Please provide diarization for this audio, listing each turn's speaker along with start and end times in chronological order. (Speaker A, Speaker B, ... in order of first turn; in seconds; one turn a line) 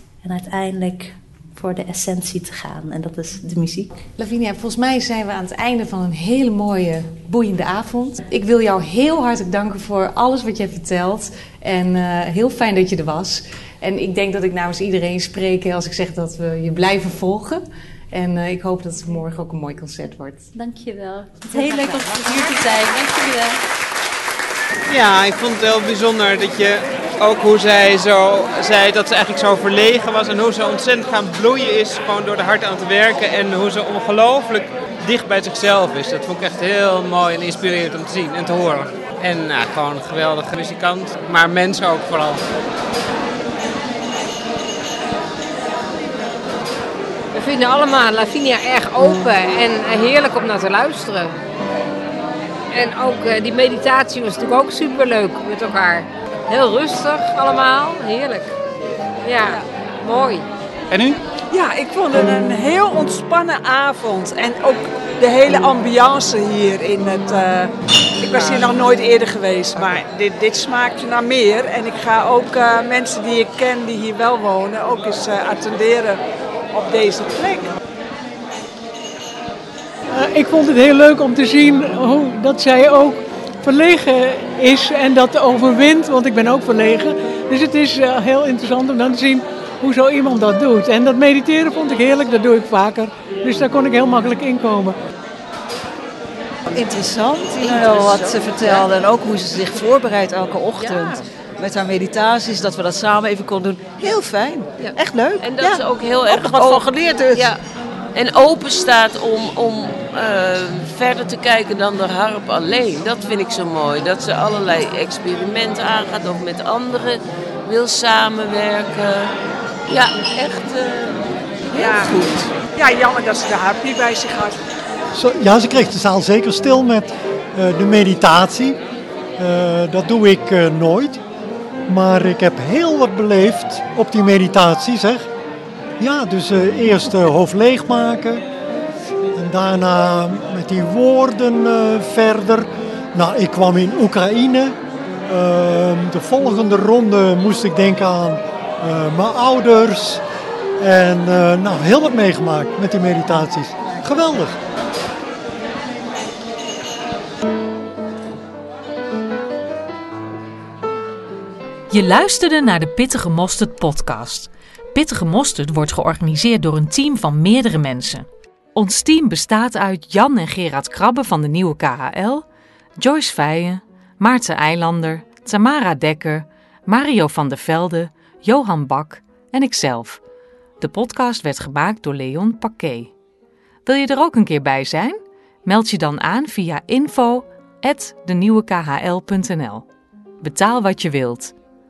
Speaker A: 0.2-4.1
Speaker B: 4.2-20.5
Speaker A: 20.5-23.6
Speaker B: 21.5-22.8
Speaker C: 24.9-42.4
Speaker D: 47.3-51.3
Speaker D: 52.7-58.5
Speaker D: 59.2-60.5
Speaker C: 60.9-61.2
Speaker E: 61.5-76.2
Speaker E: 76.7-77.7
Speaker F: 80.1-95.0
Speaker G: 96.7-107.5
Speaker H: 97.6-98.9
Speaker H: 105.4-107.6
Speaker H: 108.2-119.3
Speaker H: 119.9-121.2
Speaker H: 121.7-122.5
Speaker E: 121.7-122.2
Speaker E: 122.7-124.6
Speaker I: 125.1-128.8
Speaker I: 129.4-131.2
Speaker I: 131.9-135.3
Speaker I: 136.0-138.4
Speaker I: 139.3-144.8
Speaker I: 145.3-150.2
Speaker I: 150.8-154.6
Speaker J: 161.9-172.4
Speaker J: 173.0-180.2
Speaker J: 180.8-183.1
Speaker J: 183.9-189.9
Speaker J: 190.4-191.6